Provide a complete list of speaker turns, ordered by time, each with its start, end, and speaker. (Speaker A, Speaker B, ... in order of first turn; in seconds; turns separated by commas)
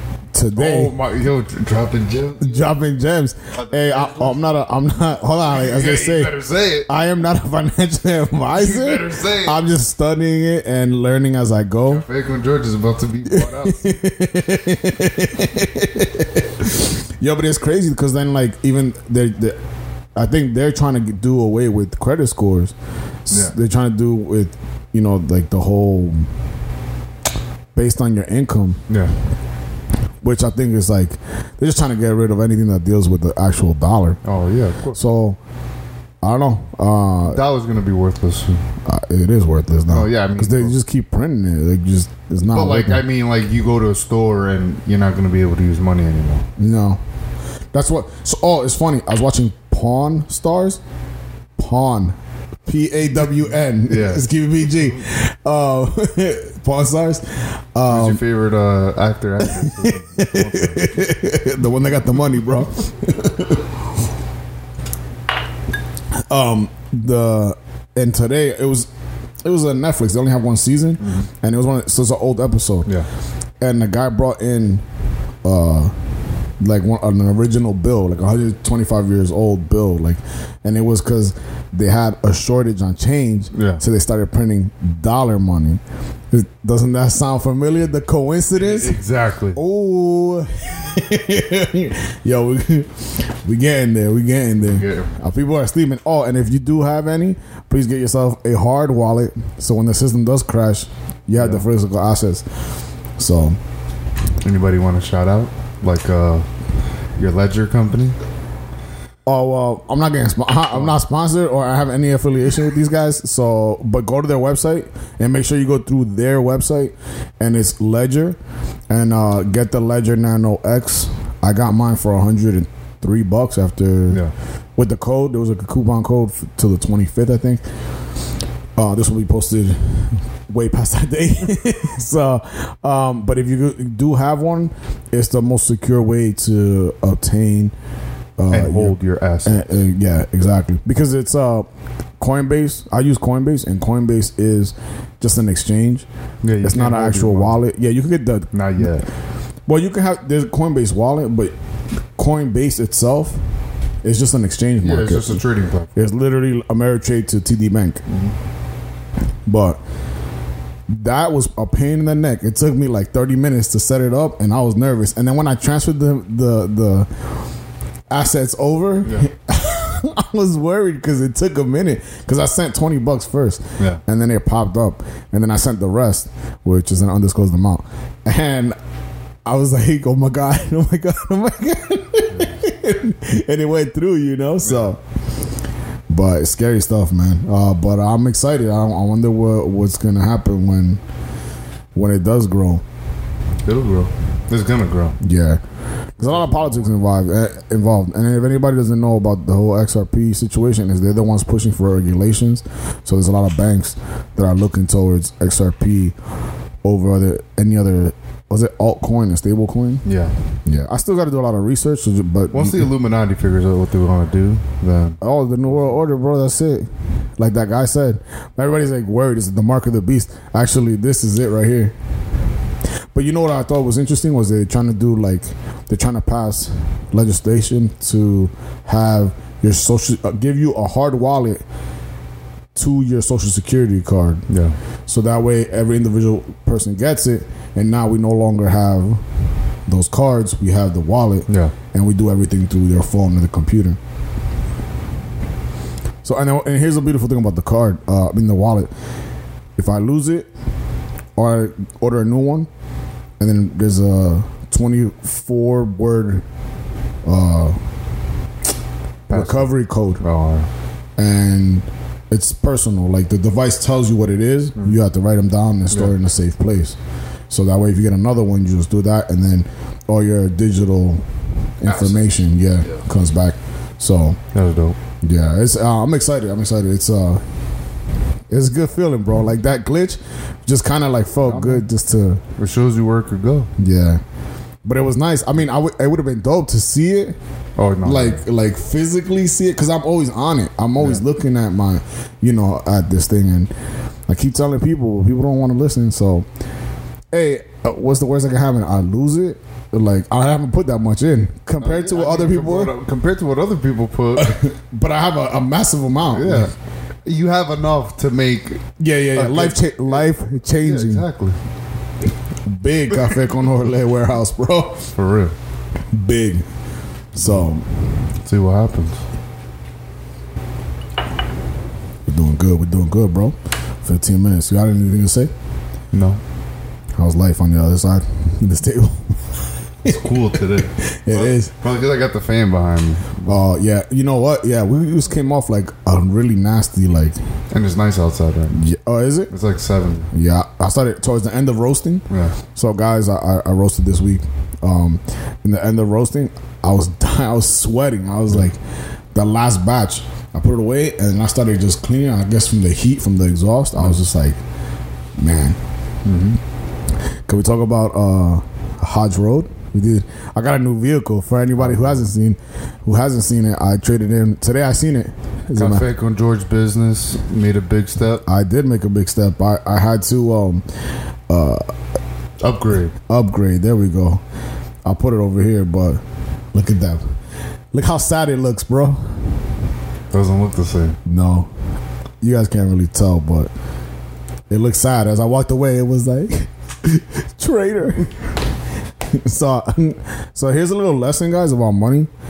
Speaker A: 0.3-0.9, Speaker B: 0.5-2.7, Speaker A: 2.4-12.0, Speaker B: 3.5-4.4, Speaker B: 5.5-6.9, Speaker B: 8.5-9.6, Speaker B: 11.8-14.0, Speaker A: 13.2-19.6, Speaker A: 20.1-22.7, Speaker A: 23.2-26.3, Speaker B: 23.3-23.5, Speaker A: 27.7-28.8, Speaker A: 30.2-34.2, Speaker B: 34.2-35.0, Speaker A: 34.9-35.4, Speaker A: 36.2-37.4, Speaker B: 37.2-38.6, Speaker A: 38.8-43.0, Speaker B: 39.9-40.8, Speaker B: 42.5-46.5, Speaker A: 46.6-47.0, Speaker A: 47.7-50.8, Speaker A: 51.6-58.2, Speaker B: 53.8-54.2, Speaker B: 57.9-60.9, Speaker A: 59.4-63.7, Speaker A: 66.1-68.9, Speaker A: 69.4-72.9, Speaker B: 71.0-71.3, Speaker A: 73.6-74.8, Speaker A: 75.4-75.9, Speaker A: 76.6-89.0, Speaker B: 83.5-83.8, Speaker B: 88.5-89.6, Speaker A: 89.5-102.5, Speaker B: 94.6-95.2, Speaker B: 101.3-101.7, Speaker A: 103.2-103.6, Speaker B: 104.4-106.5, Speaker B: 107.2-108.2, Speaker A: 109.2-118.4, Speaker A: 118.9-124.2, Speaker A: 124.8-127.6, Speaker A: 128.8-137.7, Speaker A: 138.4-141.7, Speaker B: 138.5-139.7, Speaker A: 142.2-146.1, Speaker B: 146.4-147.6, Speaker A: 146.6-148.9, Speaker B: 148.5-149.1, Speaker A: 149.7-151.5, Speaker A: 152.2-153.4, Speaker A: 154.0-155.4, Speaker B: 154.8-155.9, Speaker A: 155.9-158.0, Speaker B: 158.1-158.3, Speaker A: 159.4-159.8, Speaker A: 160.9-167.1, Speaker A: 168.1-178.8, Speaker A: 179.4-185.0, Speaker B: 182.3-182.6, Speaker A: 186.1-191.0, Speaker A: 191.9-192.8, Speaker B: 193.7-195.2, Speaker A: 195.2-195.6, Speaker A: 196.2-206.2, Speaker B: 196.2-196.9, Speaker A: 206.8-210.0, Speaker B: 210.0-210.3, Speaker A: 210.6-212.9, Speaker B: 212.5-215.2, Speaker A: 215.2-221.9, Speaker A: 223.1-231.6, Speaker A: 232.7-234.4, Speaker B: 234.5-234.8, Speaker A: 235.1-239.2, Speaker A: 239.9-244.0, Speaker B: 241.5-241.7, Speaker A: 246.2-248.9, Speaker A: 249.8-250.5, Speaker A: 251.3-252.7, Speaker A: 253.4-256.4, Speaker A: 257.2-257.8, Speaker A: 259.3-260.2, Speaker B: 259.3-260.7, Speaker A: 261.2-266.9, Speaker A: 267.5-271.2, Speaker A: 271.8-274.4, Speaker B: 271.9-272.1, Speaker B: 274.5-274.9, Speaker A: 275.2-277.4, Speaker A: 278.5-282.4, Speaker B: 281.4-281.8, Speaker B: 282.6-283.7, Speaker A: 283.8-284.2, Speaker A: 284.8-287.4, Speaker B: 287.8-288.4, Speaker A: 288.0-293.7, Speaker B: 291.0-291.2, Speaker A: 294.3-296.5, Speaker A: 297.3-302.9, Speaker B: 301.8-304.6, Speaker A: 304.4-306.7, Speaker B: 306.3-306.7, Speaker B: 307.2-310.3, Speaker A: 309.0-311.2, Speaker B: 310.8-311.6, Speaker A: 312.6-315.1, Speaker B: 315.1-315.5, Speaker A: 316.1-316.7, Speaker A: 317.3-317.9, Speaker B: 317.4-317.6, Speaker B: 318.4-319.2, Speaker A: 322.2-325.5, Speaker B: 326.1-326.4, Speaker A: 327.2-329.4, Speaker B: 330.0-333.6, Speaker A: 331.0-331.7, Speaker A: 333.5-337.4, Speaker B: 337.7-338.8, Speaker A: 338.7-339.5, Speaker B: 339.5-340.3, Speaker A: 340.3-348.8, Speaker B: 342.3-342.6, Speaker A: 349.3-354.6, Speaker A: 355.4-355.8, Speaker B: 356.2-356.6, Speaker A: 357.5-366.1, Speaker B: 361.8-362.2, Speaker B: 365.7-368.4, Speaker A: 368.4-370.8, Speaker A: 371.5-371.9, Speaker B: 372.6-373.1, Speaker A: 373.3-374.4, Speaker A: 375.0-376.2, Speaker A: 376.7-377.3, Speaker A: 377.9-379.3, Speaker B: 380.3-381.2, Speaker A: 381.2-381.7, Speaker A: 382.4-383.7, Speaker A: 384.7-388.3, Speaker A: 389.3-392.3